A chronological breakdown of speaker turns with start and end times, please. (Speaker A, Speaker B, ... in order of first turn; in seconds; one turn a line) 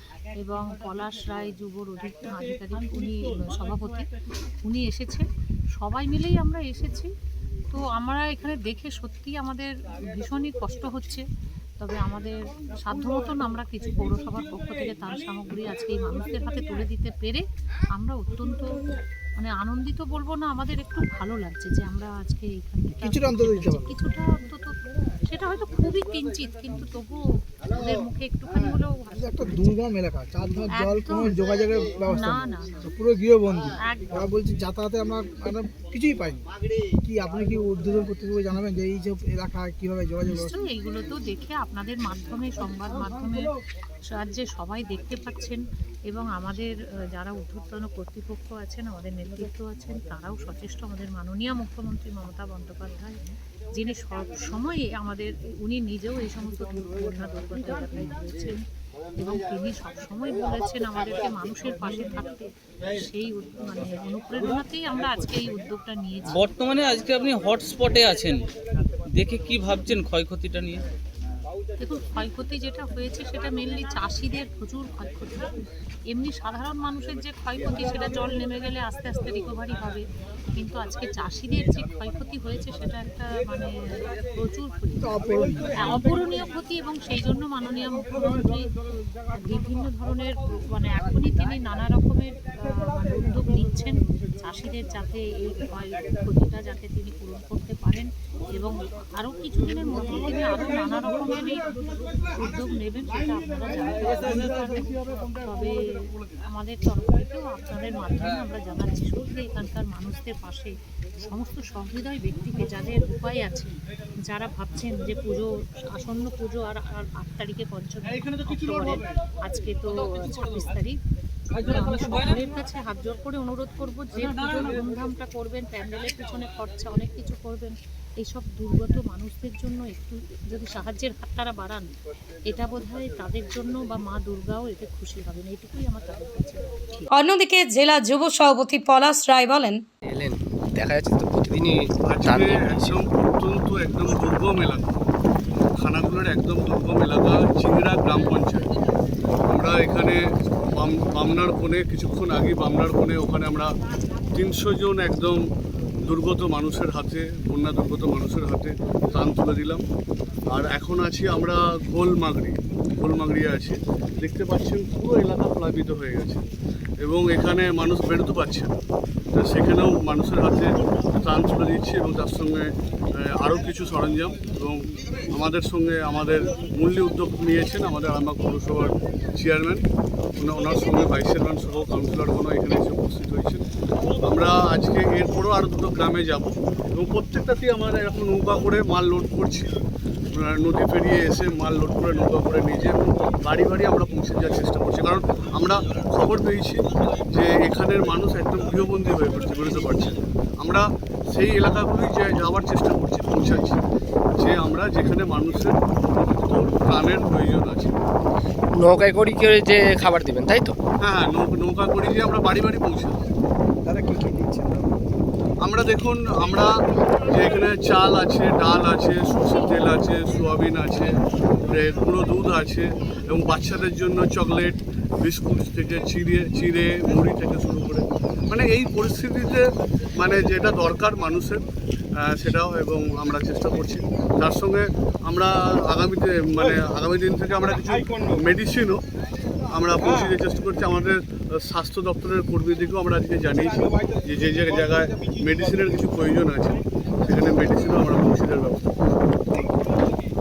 Speaker A: 0.4-4.1
Speaker A: 4.6-7.1
Speaker A: 7.7-11.2
Speaker A: 11.8-29.9
Speaker B: 29.9-30.6
Speaker A: 30.7-32.9
Speaker B: 31.4-32.0
Speaker B: 33.0-33.6
Speaker A: 33.9-34.4
Speaker B: 34.4-36.4
Speaker B: 37.0-40.2
Speaker A: 40.2-43.5
Speaker A: 44.1-53.2
Speaker A: 53.7-58.6
Speaker A: 59.2-66.4
Speaker C: 66.3-68.5
Speaker C: 69.1-70.8
Speaker A: 71.8-75.5
Speaker A: 76.1-80.0
Speaker A: 80.5-83.7
Speaker A: 84.2-88.6
Speaker B: 85.2-85.7
Speaker A: 89.3-121.0
Speaker A: 121.6-131.9
Speaker A: 132.5-137.1
Speaker D: 137.1-139.8
Speaker E: 140.1-142.9
Speaker F: 142.1-145.0
Speaker F: 145.8-148.7
Speaker F: 149.5-153.7
Speaker F: 154.3-155.4
Speaker F: 156.1-159.8
Speaker F: 160.5-166.5
Speaker F: 167.0-168.8
Speaker F: 169.3-179.8
Speaker F: 180.4-183.6
Speaker F: 184.2-189.8
Speaker F: 190.3-203.8
Speaker F: 204.4-205.8
Speaker F: 206.4-208.0
Speaker E: 208.8-210.8
Speaker F: 211.0-213.2
Speaker B: 213.9-214.9
Speaker F: 215.6-216.7
Speaker F: 217.3-231.6
Speaker A: 219.4-219.7
Speaker F: 232.2-239.0
Speaker F: 239.7-248.9